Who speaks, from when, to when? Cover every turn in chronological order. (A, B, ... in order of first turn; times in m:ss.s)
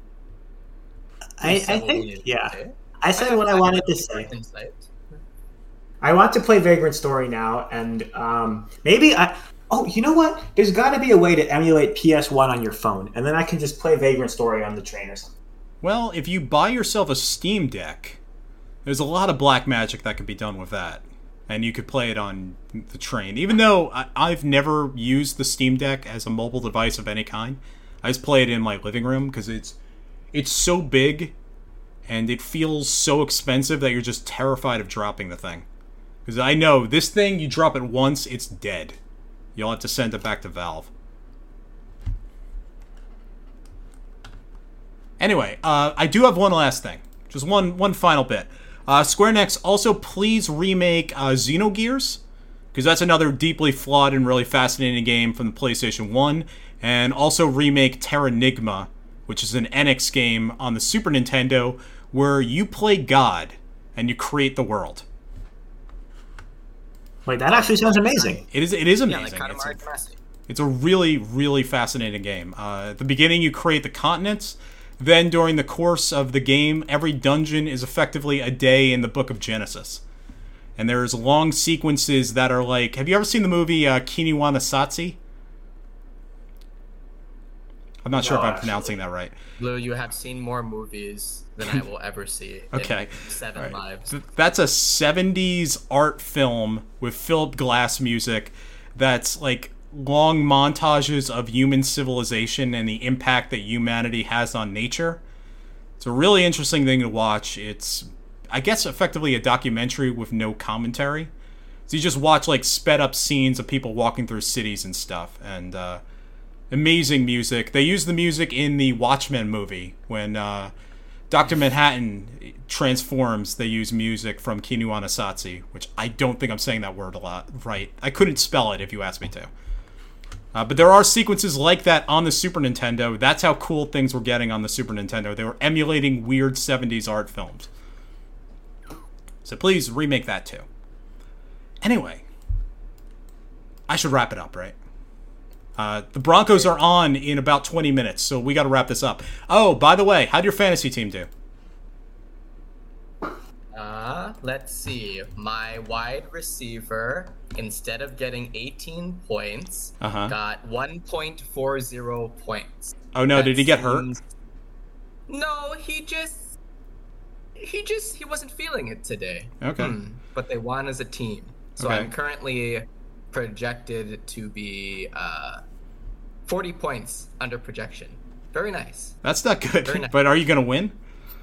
0:01.4-0:04.3 A
0:01.4-0:05.2 B
0:06.0-0:15.4 A
0:15.8-0:18.2 C
0:18.8-0:29.8 C
0:30.3-0:31.3 C
0:32.1-0:35.6 C
0:36.3-0:39.0 C
0:39.6-0:40.9 C
0:45.2-0:52.2 C
0:52.7-1:05.0 C
1:07.2-1:08.4 A
1:07.5-1:08.4 B
1:08.5-1:09.8 C
1:09.0-1:10.2 B
1:10.5-1:20.0 C
1:20.8-1:25.2 C
1:28.0-1:29.4 C
1:28.2-1:29.0 B
1:28.3-1:28.6 A
1:29.6-1:34.1 B
1:32.7-1:45.2 C
1:46.0-1:51.3 C
1:51.9-1:56.0 C
1:56.7-2:00.7 C
2:01.3-2:09.5 C
2:10.5-2:17.7 C
2:19.4-2:20.6 C
2:21.8-2:22.2 C
2:23.9-2:24.8 C
2:25.8-2:31.3 C
2:33.7-2:44.2 B
2:40.0-2:40.3 C
2:43.1-2:44.1 C
2:45.3-2:46.6 B
2:47.6-2:55.6 B
2:49.6-2:50.0 C
2:51.8-2:52.1 C
2:56.5-2:59.2 B
2:59.2-3:00.9 C
2:59.8-3:00.1 B